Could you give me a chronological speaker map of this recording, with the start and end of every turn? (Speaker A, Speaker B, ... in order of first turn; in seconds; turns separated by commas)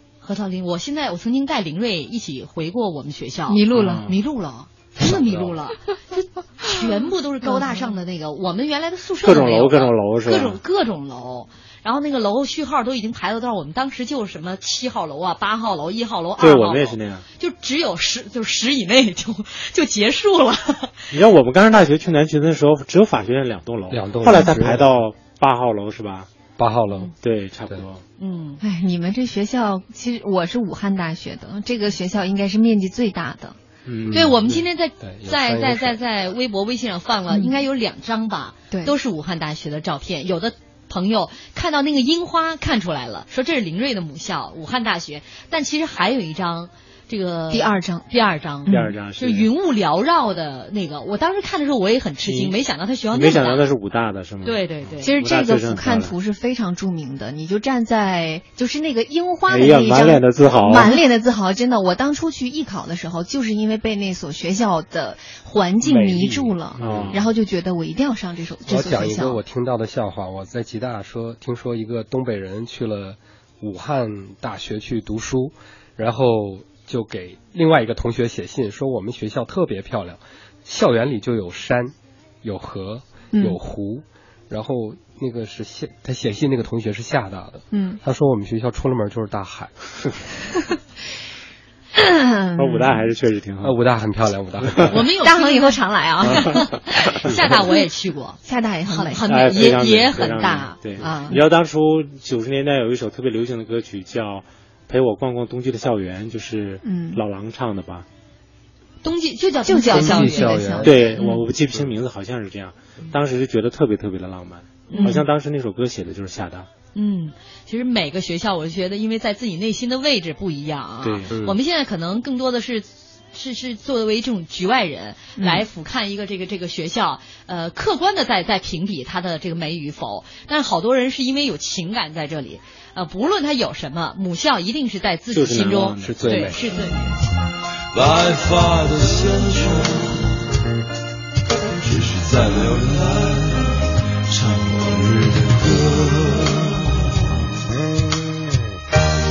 Speaker A: 0.2-21.1, Speaker B: 3.5-4.1, Speaker C: 3.7-4.1, Speaker C: 5.0-5.5, Speaker B: 7.4-7.9, Speaker C: 9.2-10.6, Speaker C: 16.4-17.2, Speaker C: 21.1-26.3, Speaker D: 23.9-24.9, Speaker D: 26.6-27.1, Speaker C: 27.2-28.0, Speaker A: 28.2-28.6, Speaker B: 28.6-33.6, Speaker C: 33.9-34.3, Speaker D: 34.1-36.0, Speaker A: 34.1-53.6, Speaker B: 38.7-38.9, Speaker B: 47.5-48.0, Speaker B: 48.6-48.9, Speaker C: 48.7-49.5, Speaker C: 52.2-52.6, Speaker C: 53.1-56.1, Speaker A: 54.4-55.1, Speaker B: 55.0-69.4, Speaker C: 59.5-61.0, Speaker D: 65.8-67.2, Speaker C: 66.8-67.2, Speaker D: 68.6-89.7, Speaker B: 83.3-83.6, Speaker B: 87.7-88.0, Speaker B: 91.9-93.1, Speaker C: 92.6-93.8, Speaker D: 93.6-94.9, Speaker C: 94.6-95.0, Speaker A: 94.8-101.4, Speaker B: 95.2-96.8, Speaker B: 98.4-99.3, Speaker C: 99.3-108.0, Speaker B: 106.8-107.2, Speaker A: 109.0-111.4, Speaker B: 109.7-111.2, Speaker D: 109.9-111.1, Speaker C: 110.8-116.7, Speaker A: 114.9-115.2, Speaker B: 114.9-115.3, Speaker A: 116.9-137.1, Speaker C: 121.0-121.3, Speaker D: 121.3-121.6, Speaker B: 125.4-125.6, Speaker C: 135.3-136.8, Speaker D: 136.0-137.0, Speaker E: 137.9-140.5, Speaker E: 141.8-147.4